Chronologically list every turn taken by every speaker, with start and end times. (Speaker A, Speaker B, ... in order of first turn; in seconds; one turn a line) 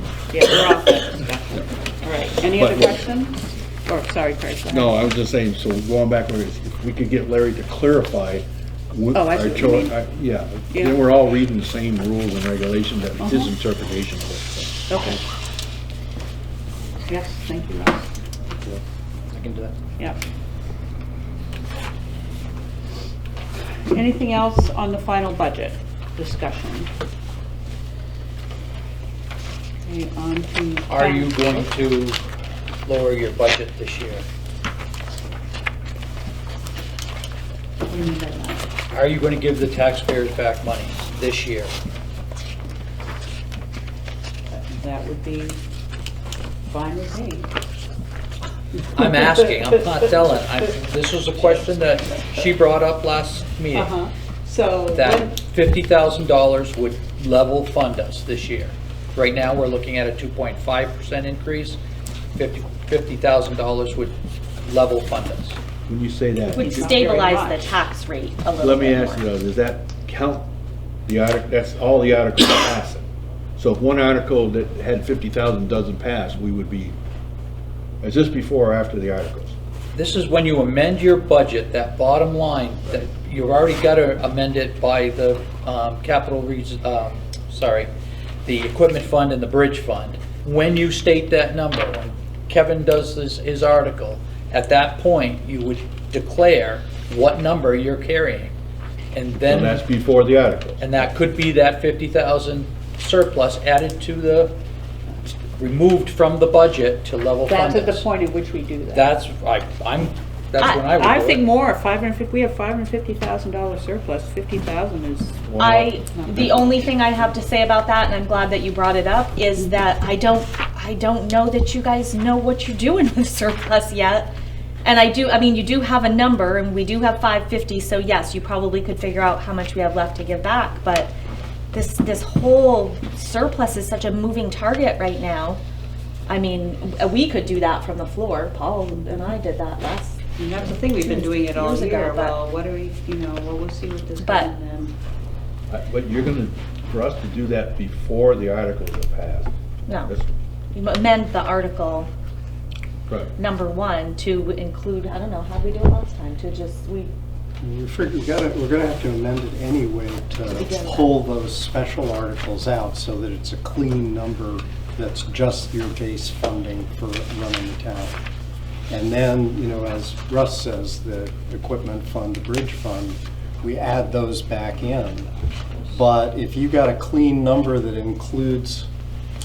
Speaker A: 0.3-5.0
Speaker B: 2.4-3.0
Speaker B: 4.7-15.2
Speaker A: 9.1-9.9
Speaker A: 10.7-11.0
Speaker A: 13.2-13.5
Speaker A: 14.9-15.2
Speaker A: 17.1-18.1
Speaker A: 23.9-26.9
Speaker A: 29.9-31.5
Speaker C: 30.9-32.2
Speaker C: 32.9-34.2
Speaker A: 37.8-38.6
Speaker C: 38.9-41.7
Speaker A: 44.5-45.6
Speaker A: 46.7-47.5
Speaker C: 48.9-53.9
Speaker A: 53.7-55.3
Speaker C: 54.9-61.8
Speaker C: 62.3-65.6
Speaker B: 65.9-66.9
Speaker D: 66.5-69.2
Speaker A: 66.5-67.7
Speaker B: 68.6-70.5
Speaker B: 71.0-73.0
Speaker B: 73.6-77.0
Speaker B: 78.0-79.5
Speaker C: 79.9-87.9
Speaker C: 88.5-98.5
Speaker C: 99.1-99.8
Speaker B: 99.4-100.8
Speaker C: 100.8-104.5
Speaker C: 105.2-108.0
Speaker A: 107.5-109.1
Speaker C: 108.9-111.4
Speaker D: 110.6-110.9
Speaker A: 110.9-115.5
Speaker B: 115.5-116.0
Speaker D: 115.6-124.3
Speaker A: 116.1-117.3
Speaker D: 124.8-131.1
Speaker D: 131.7-135.6
Speaker D: 136.3-140.2
Speaker A: 140.4-144.9
Speaker D: 140.8-142.4
Speaker D: 144.2-144.5
Speaker B: 145.7-149.5
Speaker D: 149.8-150.1
Speaker B: 150.1-150.3
Speaker D: 150.7-152.1
Speaker B: 153.1-153.3
Speaker D: 153.3-157.1
Speaker E: 157.6-168.2
Speaker D: 160.5-161.2
Speaker E: 168.9-175.3
Speaker E: 175.9-178.9